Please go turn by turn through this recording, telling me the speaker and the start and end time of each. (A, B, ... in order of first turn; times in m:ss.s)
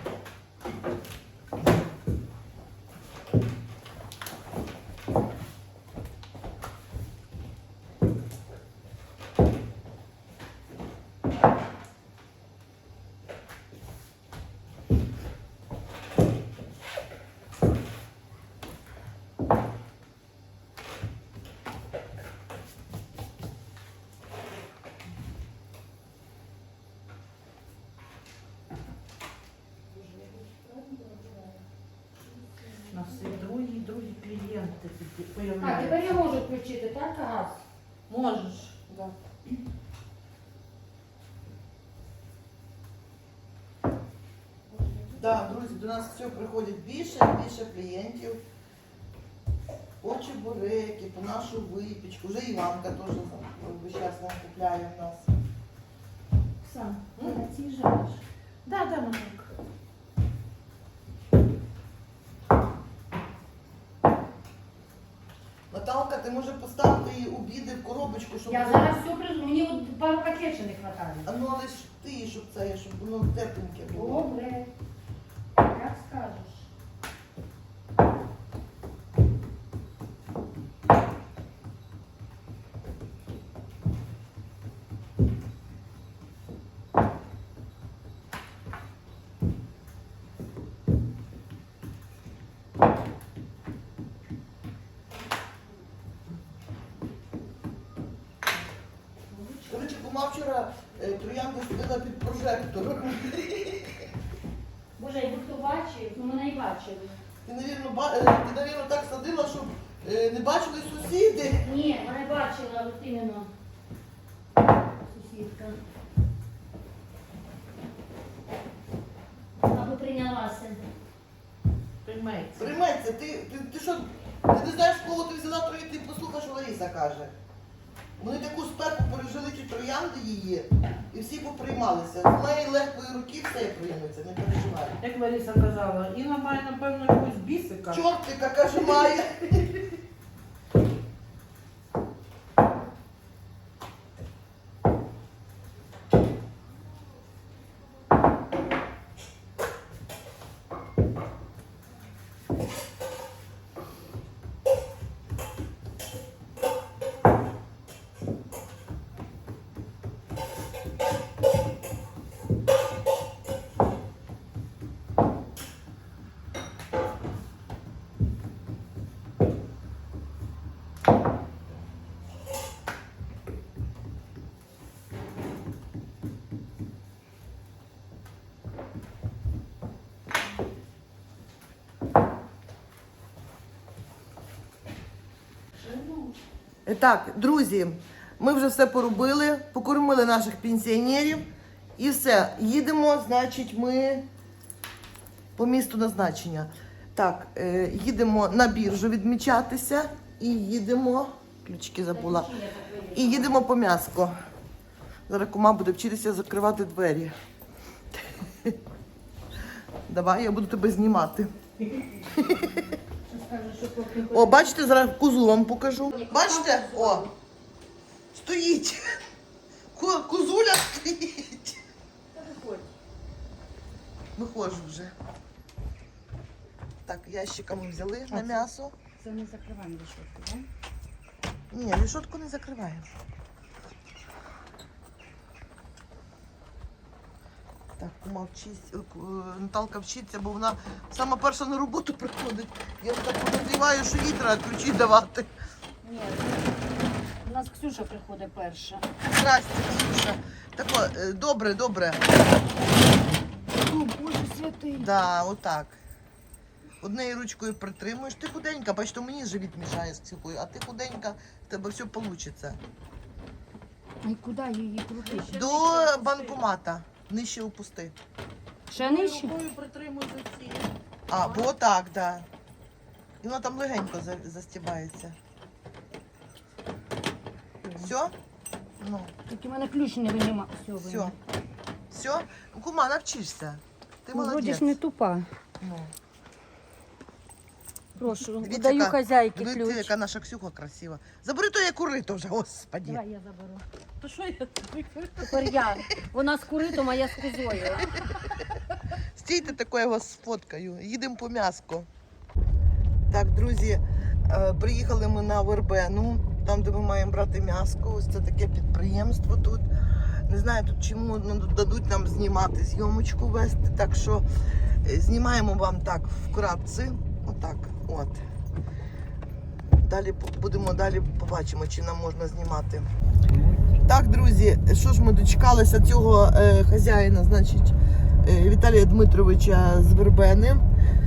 0:29.9-0:31.6 A
0:32.2-0:33.5 A
0:32.9-0:36.2 B
0:35.6-0:37.6 A
0:38.1-0:38.8 B
0:38.9-0:39.1 C
0:44.7-0:45.4 A
0:45.2-0:48.4 C
0:50.0-0:55.3 C
0:56.6-0:58.2 A
0:58.6-0:59.5 B
1:05.7-1:09.0 C
1:08.5-1:11.3 A
1:11.3-1:14.3 C
1:13.9-1:14.7 A
1:15.6-1:16.7 A
1:39.3-1:40.0 A
1:39.7-1:44.1 C
1:45.0-1:47.2 A
1:47.5-1:51.7 C
1:51.6-1:53.5 A
1:55.0-1:55.8 A
1:59.7-2:00.8 A
2:02.0-2:02.7 B
2:02.6-2:07.3 C
2:08.2-2:15.0 C
2:15.0-2:18.0 B
2:17.9-2:19.8 C
3:05.8-3:06.4 B
3:06.9-3:14.3 C
3:15.6-3:22.5 C
3:22.1-3:23.6 A
3:23.1-3:24.3 C
3:25.3-3:27.4 C
3:28.4-3:28.8 C
3:30.1-3:31.5 C
3:32.3-3:32.9 C
3:33.3-3:34.8 A
3:34.3-3:37.3 C
3:36.1-3:37.3 A
3:38.3-3:39.2 C
3:39.9-3:41.8 C
3:42.3-3:42.9 A
3:44.4-3:45.1 C
3:47.1-3:48.9 C
3:48.3-3:48.7 A
3:49.2-3:50.7 A
3:51.7-3:53.1 C
3:58.0-4:05.5 C
4:06.0-4:06.8 A
4:07.4-4:09.0 A
4:09.3-4:12.2 C
4:13.8-4:15.1 A
4:15.0-4:16.0 C
4:17.0-4:22.8 C
4:24.2-4:25.5 A
4:25.2-4:26.6 B
4:25.5-4:28.1 C
4:28.9-4:29.6 A
4:28.9-4:31.7 B
4:31.3-4:32.5 C
4:33.4-4:35.4 C
4:37.9-4:38.1 A
4:38.0-4:38.3 C
4:39.0-4:39.3 C
4:39.5-4:41.3 A
4:41.0-4:41.4 C
4:42.1-4:45.0 C
4:44.3-4:45.5 A
4:45.8-4:46.1 C
4:48.2-4:50.1 A
4:48.6-4:53.2 C
4:53.0-4:53.8 A
4:54.2-4:55.8 B
4:55.4-4:58.2 A
4:57.7-4:58.0 C
4:59.4-5:02.1 C
5:03.3-5:09.9 C
5:10.5-5:14.5 C
5:15.0-5:18.4 C
5:20.0-5:23.1 C
5:23.9-5:30.9 C